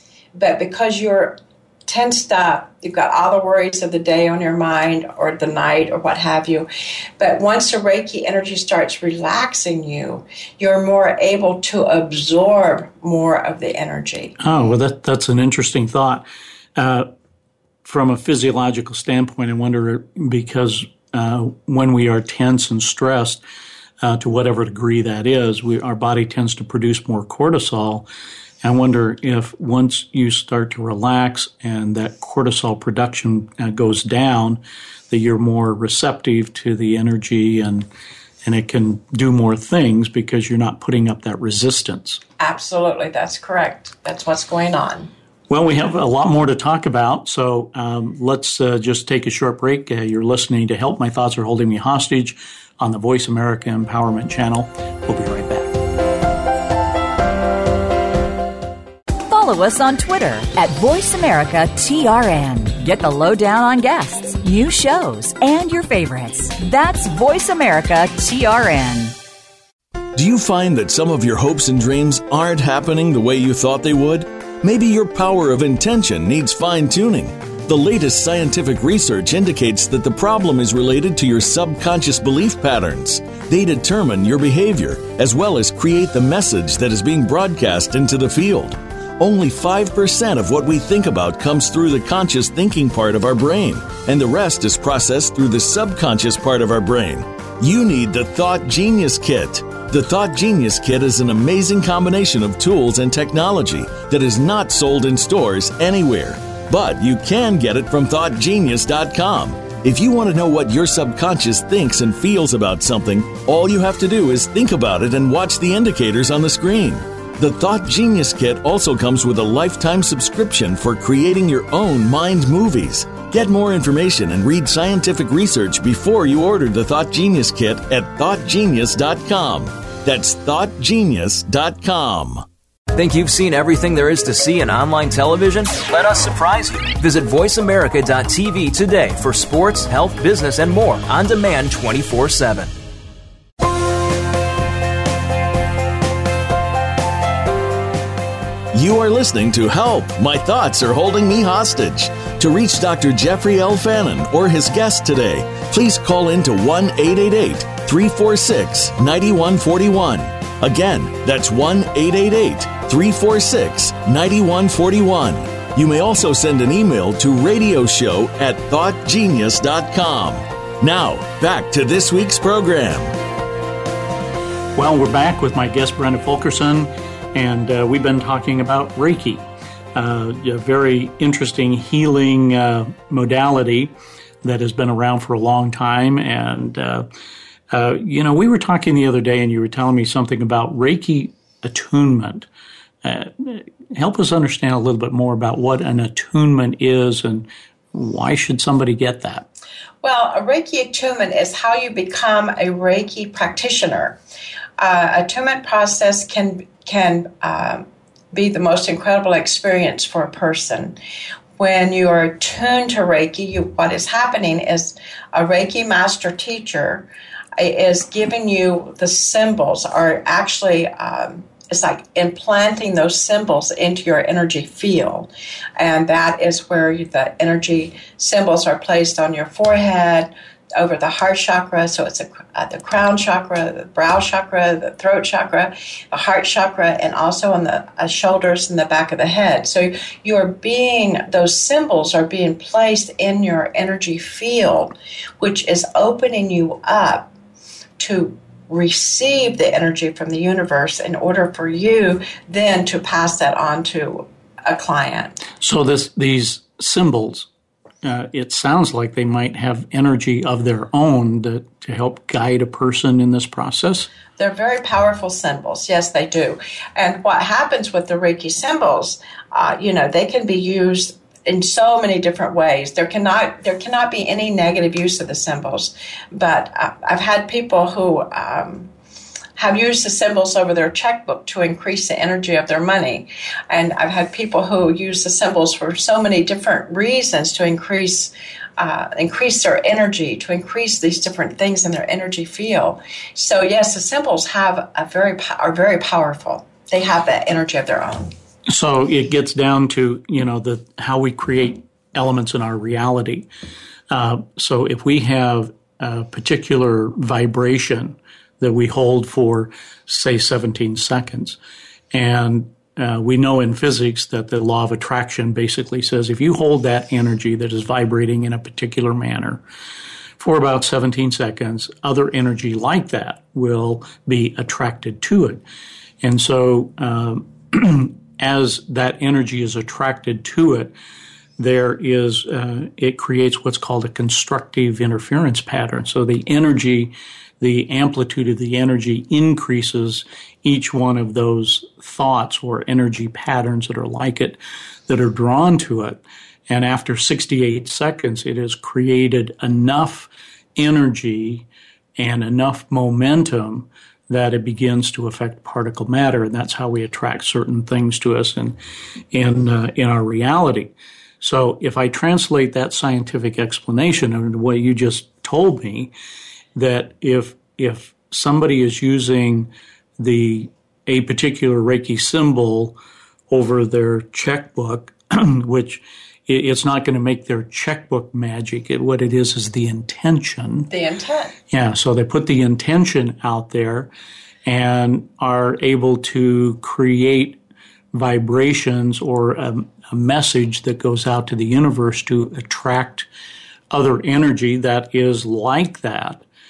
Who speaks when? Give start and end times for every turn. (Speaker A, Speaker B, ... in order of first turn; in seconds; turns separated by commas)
Speaker A: 0.3-14.3, Speaker B: 14.4-16.2, Speaker B: 16.8-17.1, Speaker B: 17.8-23.4, Speaker B: 24.0-28.1, Speaker B: 28.6-37.9, Speaker B: 38.4-42.2, Speaker A: 42.4-45.1, Speaker B: 45.5-55.7, Speaker C: 59.3-69.1, Speaker D: 70.1-132.4, Speaker E: 132.9-142.7, Speaker D: 148.7-173.1, Speaker B: 174.7-179.4, Speaker B: 179.9-187.1, Speaker B: 187.7-192.5, Speaker B: 193.0-199.4, Speaker A: 200.0-204.2, Speaker A: 204.8-211.0, Speaker A: 211.6-247.3, Speaker A: 248.0-255.4, Speaker B: 255.6-257.5, Speaker B: 258.0-264.1, Speaker A: 264.4-278.9, Speaker A: 279.6-298.3, Speaker B: 298.7-303.5, Speaker B: 304.1-311.6, Speaker B: 312.1-319.6, Speaker B: 320.4-325.6, Speaker B: 326.2-330.9, Speaker B: 331.6-351.6, Speaker B: 352.2-358.8, Speaker B: 359.3-366.1, Speaker B: 366.7-373.0, Speaker B: 373.5-380.9, Speaker A: 380.9-381.6, Speaker B: 381.7-384.1, Speaker B: 384.6-387.6, Speaker B: 388.1-393.3, Speaker B: 393.9-396.4